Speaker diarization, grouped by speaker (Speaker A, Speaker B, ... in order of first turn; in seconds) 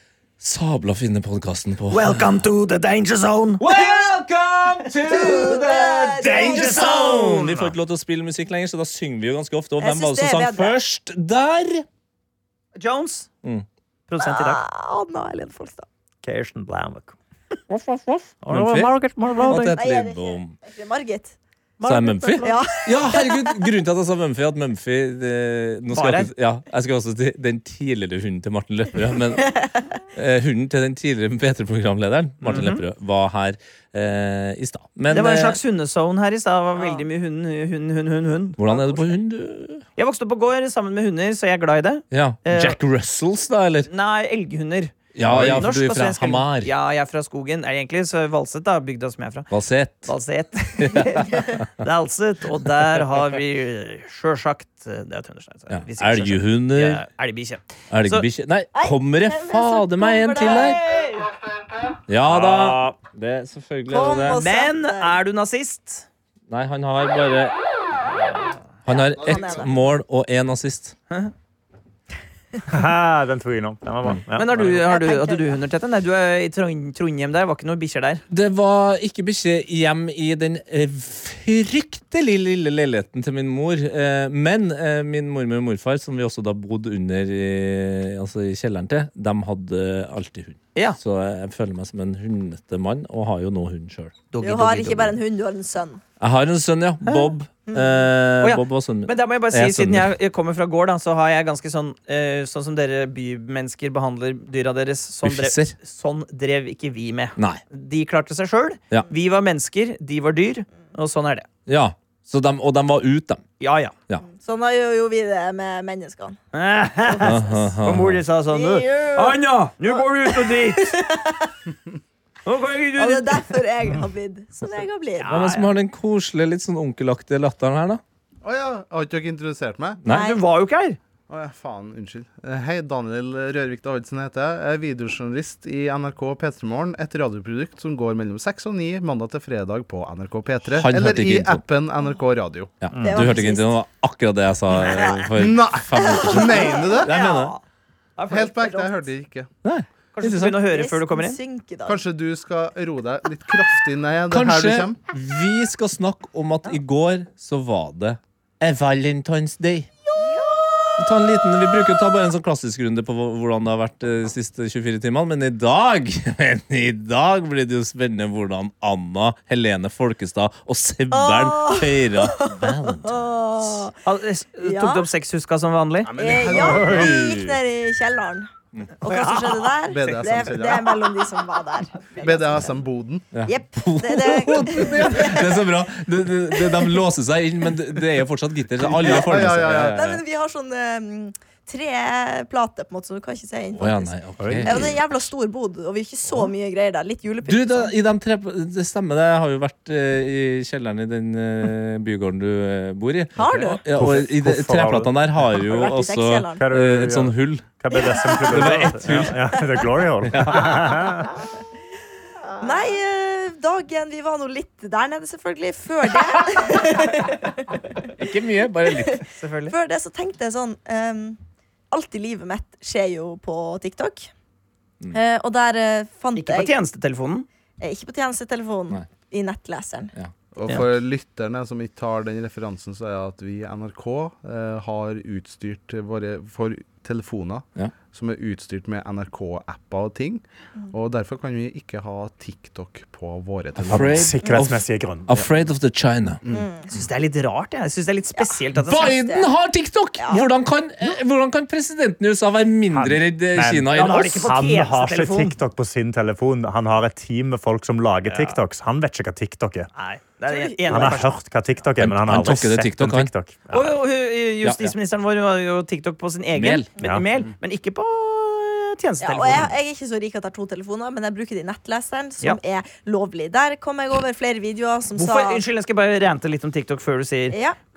Speaker A: 0.4-2.4, 3.6-11.8, 17.7-20.6, 21.8-29.6, 30.1-35.6, 38.6-39.8, 42.1-43.9, 45.1-46.7, 49.5-50.1, 50.8-51.9, 55.7-57.0, 57.9-60.8, 62.1-64.4, 66.5-67.6, 68.8-70.9, 78.3-95.2, 96.2-100.1, 105.2-105.8, 111.7-113.4, 117.2-118.2, 125.3-128.0, 130.0-130.3, 140.8-141.6, 142.8-147.6, 149.6-150.6, 154.3-159.9, 161.0-173.2, 183.3-190.2, 193.8-195.0, 197.4-207.6, 208.5-209.4, 210.3-210.8, 218.2-219.2, 243.8-246.4, 248.8-254.5, 262.0-263.3, 264.6-264.9, 266.5-266.9
Speaker B: 1.9-3.6, 5.3-5.7, 6.2-7.6, 12.8-13.3, 14.1-14.6, 21.8-22.6, 25.9-26.3, 32.4-32.8, 35.1-39.2, 40.0-42.8, 43.9-49.5, 50.0-58.3, 60.4-61.3, 64.3-66.1, 74.3-78.2, 97.0-97.3, 98.4-111.5, 113.6-113.9, 116.5-121.0, 122.4-123.6, 125.2-125.7, 130.1-131.0, 147.1-147.6, 148.2-148.8, 150.1-151.4, 174.0-176.1, 179.1-180.2, 219.4-219.7, 226.3-227.4, 246.9-249.2, 253.9-255.6, 258.2-258.6, 259.9-261.4, 263.7-269.7, 275.2-277.6
Speaker C: 5.0-6.9, 9.8-10.8, 14.2-15.9, 19.7-21.4, 22.4-23.6, 29.4-29.7, 58.7-60.8, 63.9-65.2, 68.9-69.7, 74.8-75.5, 94.4-96.0, 97.7-98.1, 114.3-116.4, 118.5-121.5, 123.0-125.4, 130.1-130.4, 143.0-143.7, 144.8-145.2, 145.9-147.1, 148.6-149.0, 150.7-152.0, 160.2-161.0, 171.1-173.9, 174.6-175.1, 176.2-182.8, 183.4-185.5, 186.6-186.9, 189.8-197.9, 203.3-203.8, 205.5-206.6, 207.9-208.7, 212.6-218.1, 218.8-221.4, 221.9-224.3, 225.1-226.7, 227.8-230.1, 246.5-246.9, 248.4-249.5, 250.2-250.5, 260.5-261.1, 269.2-275.6, 277.5-277.8
Speaker D: 6.5-7.7, 16.2-17.1, 18.4-19.8, 62.3-62.9, 72.7-74.8, 142.9-143.3, 176.7-177.1, 194.4-194.9, 203.9-205.1, 206.6-211.3, 243.8-245.4, 252.9-259.9, 260.9-263.9
Speaker E: 69.2-69.6, 128.4-130.0, 131.3-142.8, 145.3-147.2, 148.3-149.5, 151.8-155.0, 176.0-177.2, 179.9-181.1, 182.2-183.3, 188.8-190.0, 203.4-203.7, 230.5-244.3, 246.4-246.7